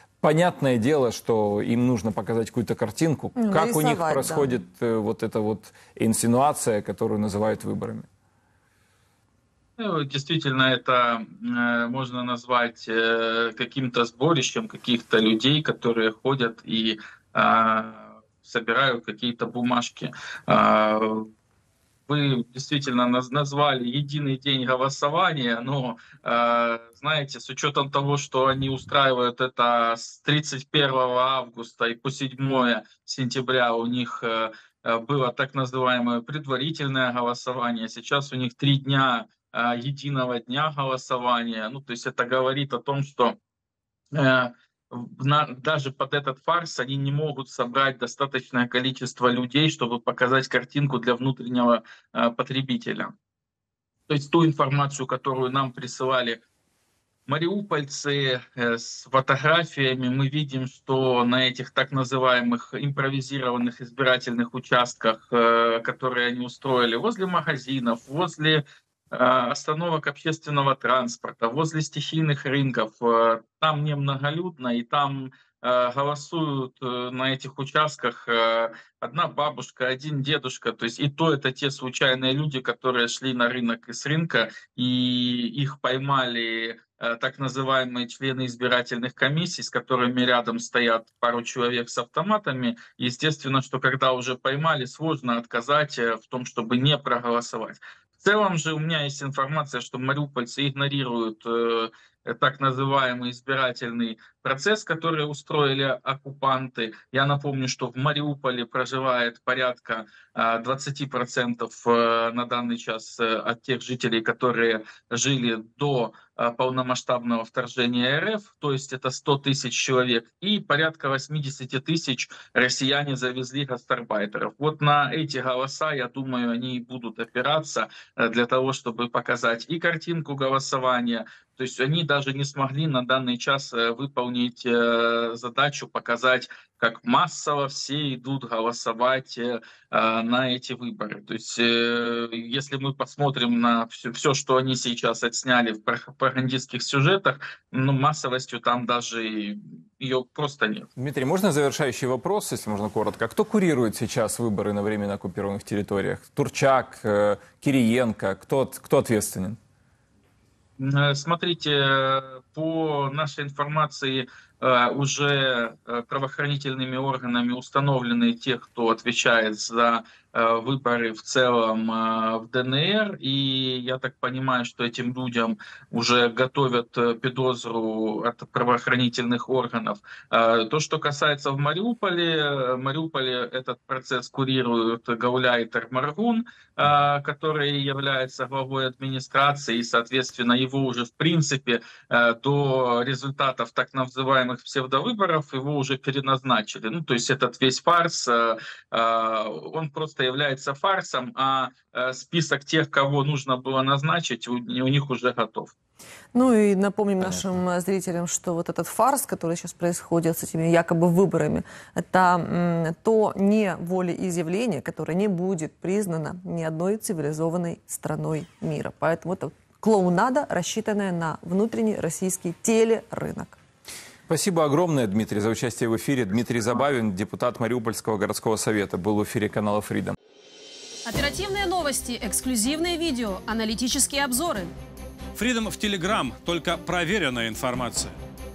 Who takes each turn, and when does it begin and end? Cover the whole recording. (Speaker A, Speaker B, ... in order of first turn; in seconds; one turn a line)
Speaker A: 0.2-8.1
Speaker B: 3.4-4.5
Speaker C: 9.8-21.3
Speaker C: 22.1-43.4
Speaker C: 44.1-53.1
Speaker C: 54.1-56.4
Speaker C: 57.3-150.9
Speaker A: 151.0-159.6
Speaker C: 160.8-205.7
Speaker B: 206.3-223.6
Speaker A: 224.3-230.2
Speaker D: 231.1-234.7
Speaker E: 235.3-238.2